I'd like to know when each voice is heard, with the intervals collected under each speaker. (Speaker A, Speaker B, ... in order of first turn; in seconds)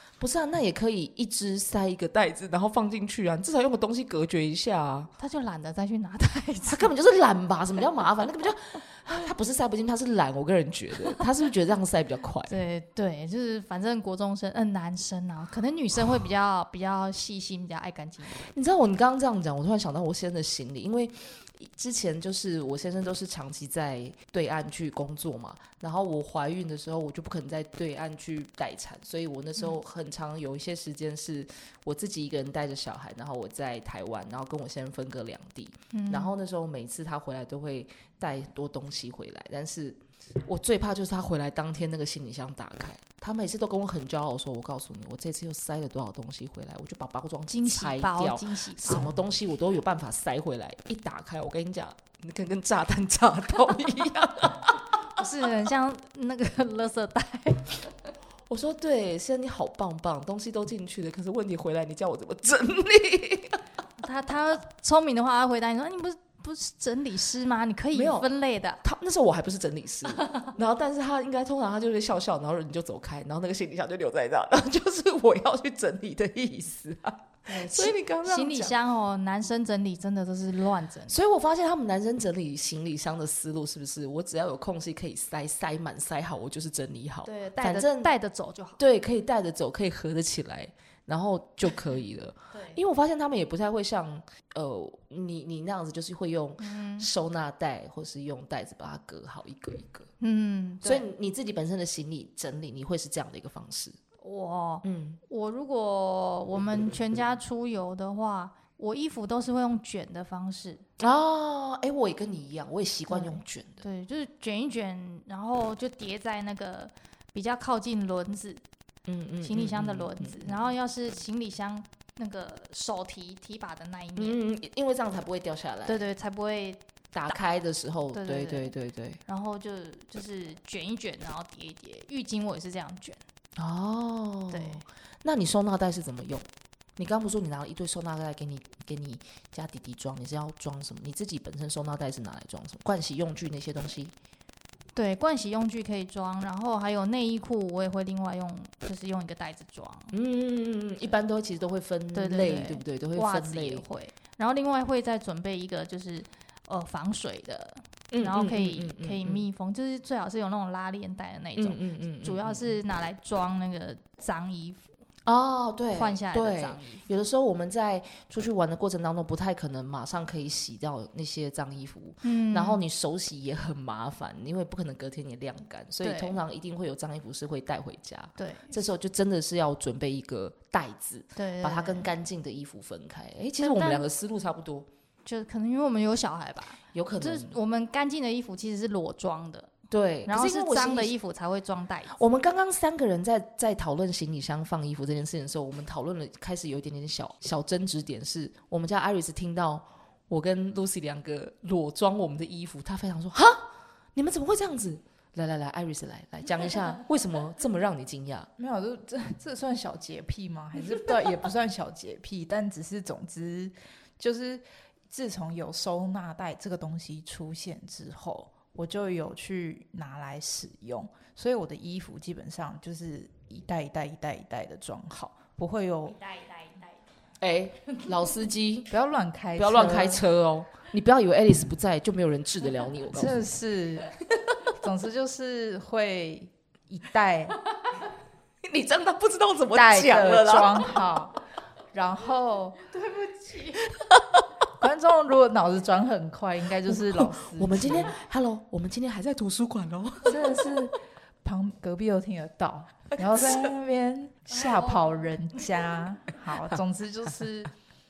Speaker A: 0.2-5.1, 6.7-12.5, 18.4-54.8, 58.5-63.6, 67.9-68.3, 68.8-78.7, 81.1-88.1, 88.8-100.1, 100.8-104.0, 104.8-105.2, 111.0-113.8, 119.1-120.6, 124.2-126.0, 127.1-129.2, 133.6-144.1, 150.1-153.8, 158.1-159.4, 161.6-162.8, 165.2-184.9, 186.9-187.6, 189.9-191.1, 192.1-208.5, 227.4-228.9, 229.5-233.4, 238.6-240.9, 246.9-250.7
Speaker B: 5.2-6.9, 12.5-18.5, 35.9-36.3, 47.5-49.1, 55.1-57.9, 64.0-68.8, 77.5-81.2, 87.2-88.8, 92.5-92.8, 96.6-97.1, 100.2-101.1, 104.2-110.8, 113.1-118.6, 119.4-124.4, 125.9-126.8, 128.1-128.7, 129.2-133.2, 134.5-134.8, 144.9-150.1, 152.1-164.9, 165.9-167.0, 172.2-172.8, 176.0-176.4, 178.4-178.8, 181.3-182.1, 183.6-184.1, 185.2-189.7, 190.3-192.2, 226.1-227.0, 242.8-244.0, 254.6-255.2
Speaker C: 208.6-226.2, 228.9-230.2, 233.1-234.1, 234.7-237.6, 239.7-241.3, 241.9-242.8, 244.8-248.2, 250.2-257.7